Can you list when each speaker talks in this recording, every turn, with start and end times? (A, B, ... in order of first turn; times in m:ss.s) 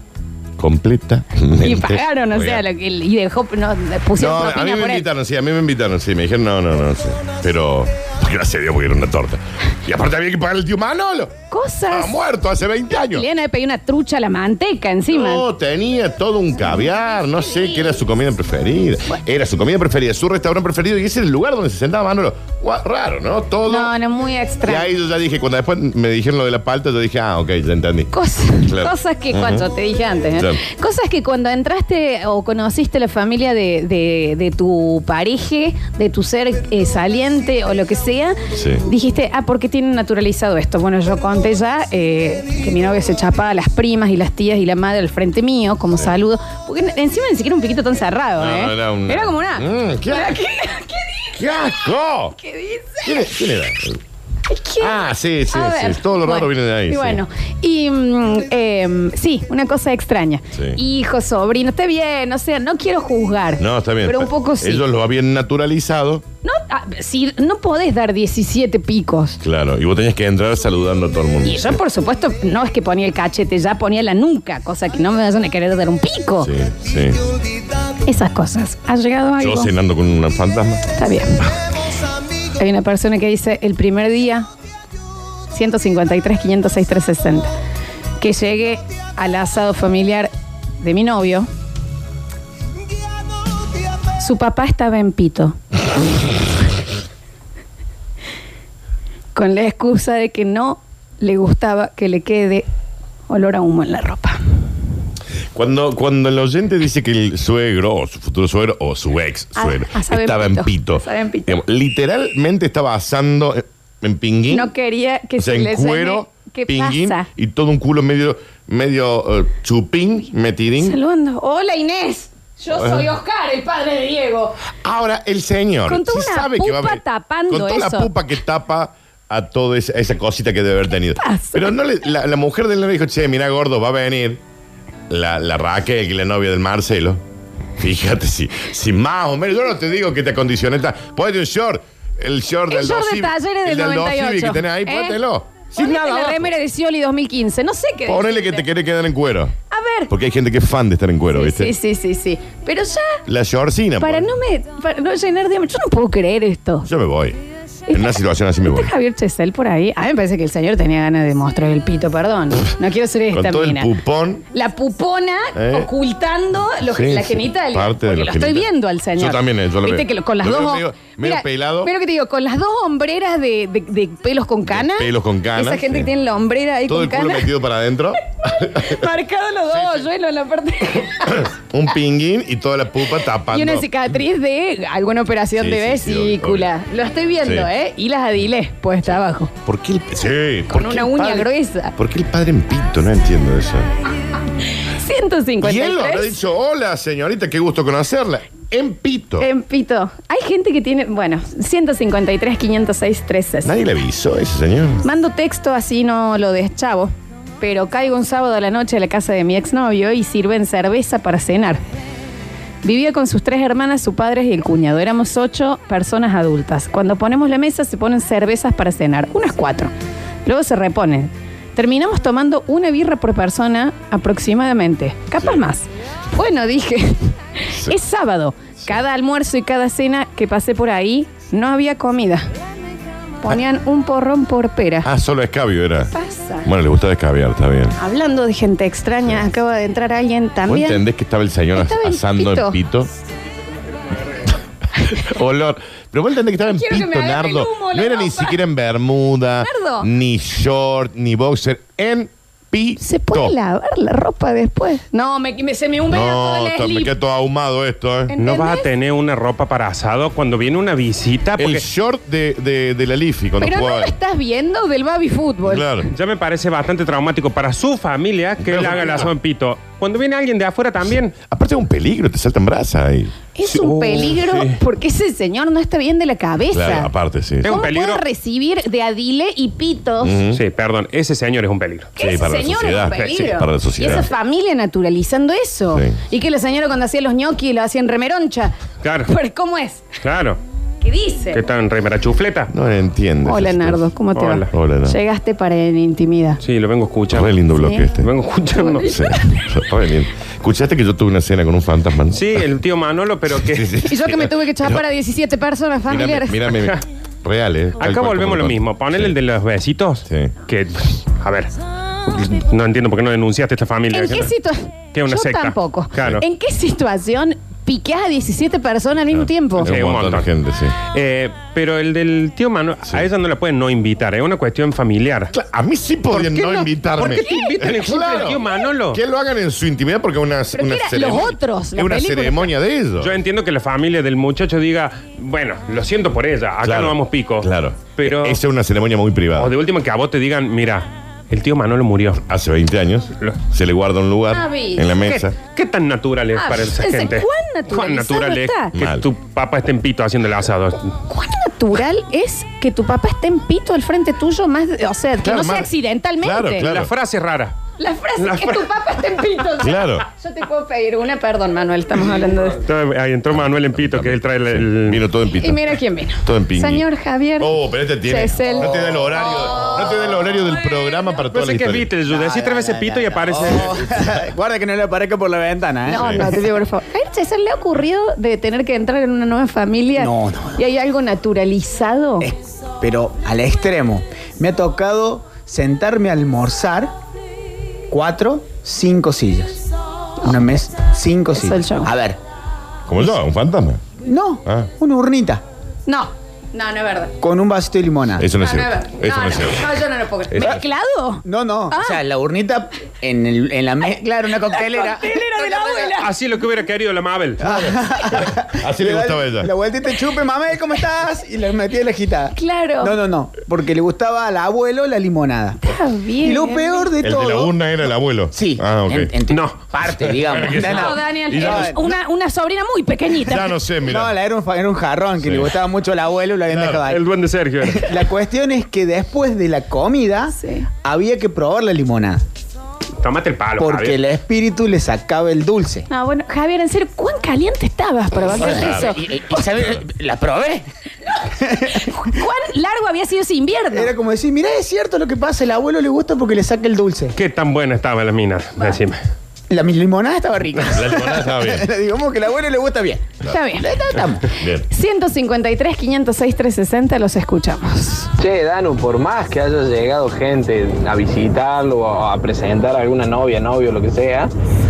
0:00.6-0:02.6 A
0:01.6-0:05.1 B
0:04.2-0:11.4 A
0:11.5-0:12.2 B
0:11.9-0:13.3 A
0:12.9-0:15.5 B
0:15.1-0:23.9 A
0:23.7-0:24.9 B
0:24.6-0:29.7 A
0:28.1-0:51.4 B
0:30.4-0:30.6 A
0:38.5-0:38.9 A
0:48.4-0:50.4 A
0:51.4-0:52.4 A
0:52.4-0:53.3 B
0:53.0-0:54.0 A
0:54.5-1:04.8 B
0:54.8-0:57.2 A
1:00.5-1:00.8 A
1:03.6-1:06.2 A
1:06.4-1:09.4 B
1:09.4-1:11.8 A
1:11.4-1:16.5 B
1:16.4-1:17.3 A
1:18.1-1:19.7 B
1:19.4-1:20.9 A
1:20.9-1:21.4 B
1:22.6-1:24.5 B
1:25.5-1:27.5 B
1:28.2-1:31.5 B
1:34.2-1:35.6 B
1:39.4-1:42.7 B
1:43.3-1:44.4 B
1:45.5-1:54.7 A
1:49.6-1:51.6 B
1:54.5-1:57.3 B
1:55.4-2:01.0 A
2:00.8-2:04.6 B
2:02.7-2:03.1 A
2:04.8-2:14.4 A
2:05.9-2:08.1 B
2:11.2-2:11.7 B
2:15.1-2:17.2 A
2:17.8-2:26.5 A
2:22.7-2:25.2 B
2:25.8-2:28.7 B
2:28.1-2:29.6 A
2:29.7-2:30.1 B
2:30.1-2:31.7 A
2:31.3-2:33.2 B
2:33.3-2:34.3 A
2:34.0-2:36.9 B
2:36.8-2:37.4 A
2:37.9-2:43.9 B
2:37.9-2:38.9 A
2:43.3-2:44.4 A
2:44.5-2:57.5 B
2:45.6-2:45.9 A
2:46.8-2:51.9 A
2:54.7-2:56.1 A
2:56.9-2:59.1 A
2:58.8-3:01.5 B
2:59.7-3:00.1 A
3:01.2-3:03.9 A
3:03.5-3:09.5 B
3:05.6-3:06.7 A
3:07.4-3:07.7 A
3:09.1-3:13.9 A
3:10.7-3:12.0 B
3:14.7-3:16.3 B
3:15.6-3:19.5 A
3:19.4-3:23.7 B
3:23.6-3:25.0 A
3:25.0-3:31.8 B
3:32.8-3:39.9 B
3:40.4-3:52.5 B
3:53.4-3:55.1 B
3:55.0-3:56.1 A
3:56.1-3:56.7 B
3:56.6-3:58.0 A
3:58.0-4:01.0 B
4:00.7-4:03.1 A
4:01.7-4:02.8 B
4:05.2-4:13.5 A
4:06.7-4:08.6 B
4:09.6-4:10.1 B
4:13.0-4:17.1 B
4:16.1-4:18.3 A
4:18.3-4:18.9 B
4:18.4-4:21.8 C
4:21.6-4:24.2 A
4:23.6-4:26.0 B
4:25.6-4:26.1 A
4:26.1-4:31.4 C
4:28.6-4:29.3 A
4:31.4-4:33.3 A
4:33.6-4:37.1 B
4:33.7-4:34.7 C
4:36.7-4:37.8 A
4:37.6-4:38.2 C
4:37.6-4:40.4 B
4:40.2-4:40.6 A
4:40.5-4:42.1 C
4:42.2-4:48.8 B
4:42.2-4:44.3 A
4:45.9-4:46.2 A
4:49.0-4:49.3 C
4:49.3-4:50.1 B
4:50.2-4:50.6 C
4:51.0-4:51.6 B
4:51.5-4:52.7 C
4:52.7-4:54.0 A
4:53.4-4:56.6 B
4:54.4-4:54.7 C
4:54.7-4:55.2 A
4:56.6-4:57.6 C
4:57.3-4:58.3 A
4:57.8-4:58.1 B
4:58.2-4:59.2 C
4:58.8-4:59.6 B
4:59.0-5:02.6 A
5:02.4-5:04.0 C
5:03.5-5:05.0 A
5:04.1-5:06.6 B
5:06.1-5:09.4 A
5:08.0-5:11.7 C
5:10.3-5:10.5 A
5:12.4-5:14.5 C
5:14.1-5:19.9 B
5:15.1-5:16.4 C
5:16.2-5:16.4 A
5:19.3-5:21.0 A
5:19.8-5:20.5 C
5:21.1-5:25.5 C
5:25.5-5:33.4 A
5:26.4-5:27.9 B
5:27.2-5:29.2 C
5:30.7-5:32.7 B
5:33.2-5:38.6 C
5:36.8-5:39.7 A
5:39.6-5:42.4 C
5:42.5-5:45.6 A
5:44.5-5:45.1 B
5:45.2-5:51.2 C
5:46.6-5:48.9 B
5:49.0-5:49.2 A
5:51.3-5:56.9 B
5:55.4-5:57.1 A
5:56.8-5:57.8 C
5:58.0-6:02.8 B
5:58.4-5:58.9 C
5:59.8-6:00.3 A
6:02.8-6:05.2 C
6:03.5-6:07.1 A
6:05.6-6:10.4 B
6:07.6-6:12.1 A
6:11.5-6:14.1 C
6:12.3-6:16.6 D
6:16.1-6:22.5 B
6:16.1-6:16.5 A
6:20.2-6:20.8 D
6:22.4-6:27.1 D
6:28.1-6:29.8 D
6:30.4-6:32.4 D
6:31.6-6:32.1 B
6:33.1-6:34.0 A
6:34.2-6:35.6 D
6:34.6-6:34.9 A
6:36.1-6:37.3 B
6:37.4-6:38.5 D
6:38.4-6:39.9 A
6:38.6-6:42.2 B
6:40.5-6:40.8 A
6:41.4-6:46.1 D
6:44.7-6:46.3 B
6:46.2-6:47.6 C
6:47.6-6:55.8 D
6:47.6-6:49.7 A
6:52.6-6:53.2 B
6:55.8-6:57.1 B
6:56.4-6:57.8 D
6:57.2-6:59.3 A
6:58.5-7:02.1 D
6:59.5-7:01.0 C
7:00.5-7:02.0 A
7:00.8-7:03.7 B
7:03.3-7:04.4 A
7:04.1-7:07.2 D
7:05.4-7:05.7 A
7:06.7-7:07.0 A
7:07.1-7:08.3 C
7:07.8-7:12.4 D
7:10.5-7:10.9 B
7:13.2-7:14.2 C
7:13.8-7:16.1 D
7:16.1-7:19.2 B
7:18.5-7:20.8 D
7:18.6-7:19.2 A
7:19.7-7:20.0 A
7:21.6-7:22.1 D
7:22.0-7:24.1 B
7:23.9-7:27.4 D
7:27.4-7:29.2 C
7:29.7-7:34.5 D
7:30.8-7:31.9 A
7:33.4-7:33.9 B
7:34.5-7:34.8 A
7:34.9-7:38.3 B
7:38.4-7:44.5 E